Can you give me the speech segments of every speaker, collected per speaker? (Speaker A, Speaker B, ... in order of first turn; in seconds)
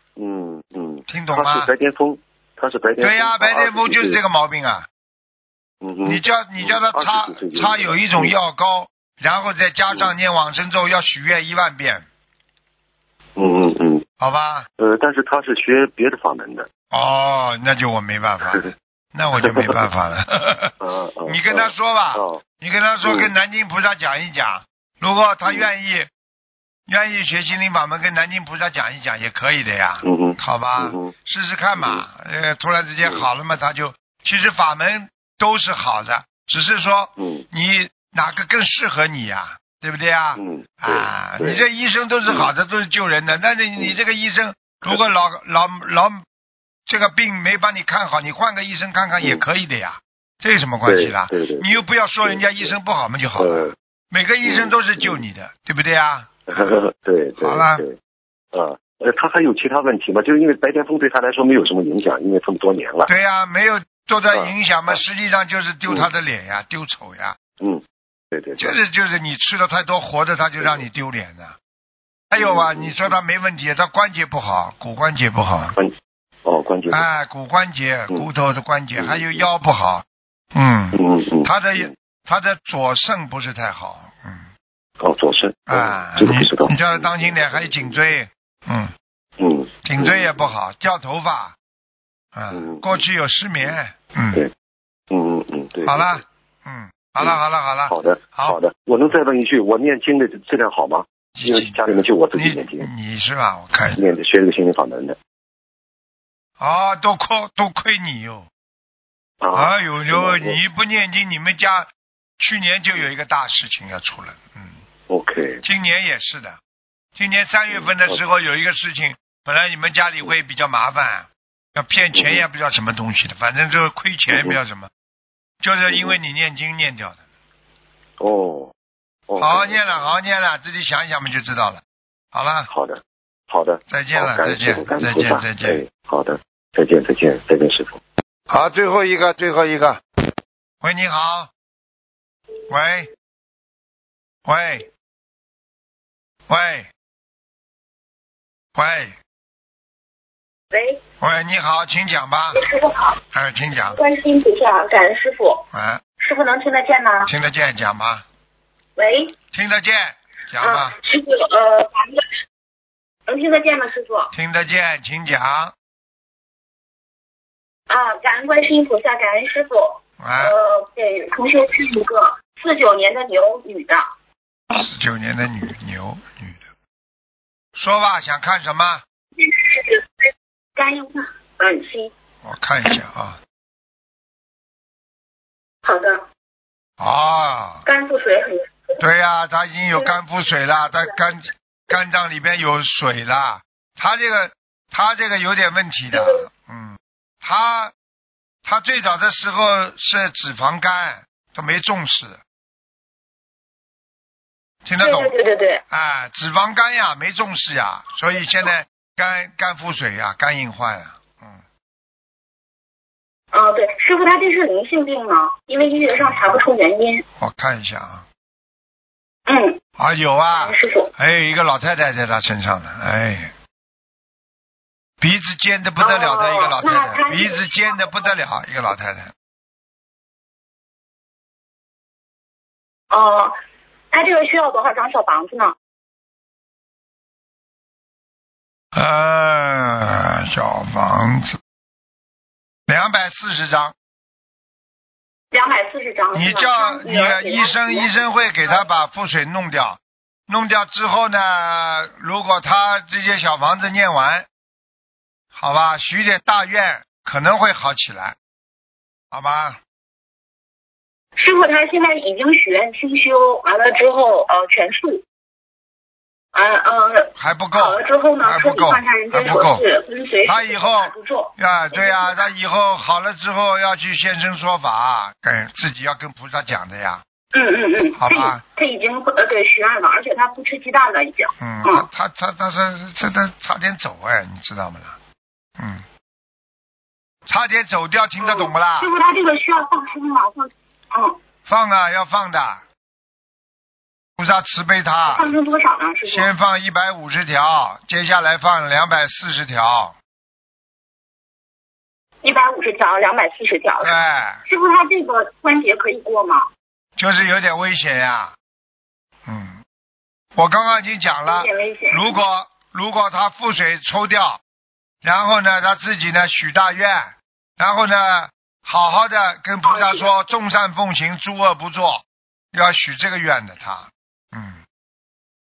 Speaker A: 0.1-4.2, 5.8-8.3, 13.3-14.0, 14.8-16.7, 19.4-19.8, 20.8-22.4, 23.0-23.3, 30.0-31.1, 31.8-32.0, 37.2-37.4, 40.4-41.6, 50.9-52.7, 53.4-53.7, 54.4-55.2, 56.5-58.0, 58.5-63.1, 64.3-65.0, 67.6-68.8, 72.4-73.2, 76.4-77.0, 79.0-79.5, 80.9-81.9, 85.0-88.0, 89.4-90.5, 92.5-93.0, 95.1-96.2, 97.2-102.9, 104.0-105.2, 109.4-110.6, 115.1-115.6, 117.7-118.2, 122.1-122.4, 124.3-124.6, 125.9-126.2, 128.2-128.7, 129.3-130.1, 132.7-138.0
Speaker B: 1.1-1.7, 3.0-4.9, 6.0-12.1, 14.2-14.7, 16.9-26.1, 26.9-46.2, 46.9-56.6, 57.4-57.8, 63.1-67.4, 68.6-71.5, 72.3-75.8, 76.9-84.5, 85.7-88.9, 89.8-91.5, 92.3-94.4, 95.8-98.6, 101.4-104.1, 106.6-108.5, 109.5-111.9, 112.4-114.7, 115.6-116.6, 117.1-124.9, 125.6-127.2, 129.4-131.8, 132.3-132.7, 133.9-135.8, 138.5-140.0, 140.8-141.5, 142.7-143.1, 144.4-144.9, 146.5-146.9, 148.7-149.2, 151.2-152.6, 153.3-154.0, 155.7-156.0, 157.3-158.2, 159.5-160.9, 164.3-165.7, 170.2-170.5, 174.8-176.6, 177.7-179.0, 182.4-183.4, 187.0-187.8, 189.0-197.9, 198.6-202.4, 204.8-205.3, 205.9-211.6, 216.2-216.5, 217.4-218.2, 220.0-223.5, 225.2-229.3, 238.9-241.6, 242.9-243.9, 246.3-254.5, 255.5-258.4, 259.3-259.8, 267.4-269.8, 270.4-277.2, 278.2-278.6, 281.6-285.2, 285.8-286.0, 287.4-289.1, 291.6-292.8, 294.4-295.5, 296.2-300.1, 304.0-304.6, 307.2-308.5, 309.4-309.8, 310.5-314.6, 315.2-324.8
Speaker C: 150.7-151.0, 152.6-153.1, 153.9-155.7, 156.2-157.3, 159.0-159.4, 160.6-162.2, 163.3-164.3, 167.9-174.0, 179.4-180.0, 180.8-182.1, 185.8-186.2, 187.8-189.0, 196.1-196.4, 205.0-205.8, 213.5-217.2, 219.4-219.8, 220.5-221.1, 226.0-228.2, 233.1-233.6, 234.1-235.7, 245.5-248.8, 261.4-265.2, 266.5-272.5, 277.5-282.1, 288.4-291.4, 295.2-296.5, 302.4-306.6, 311.5-312.4, 319.8-320.3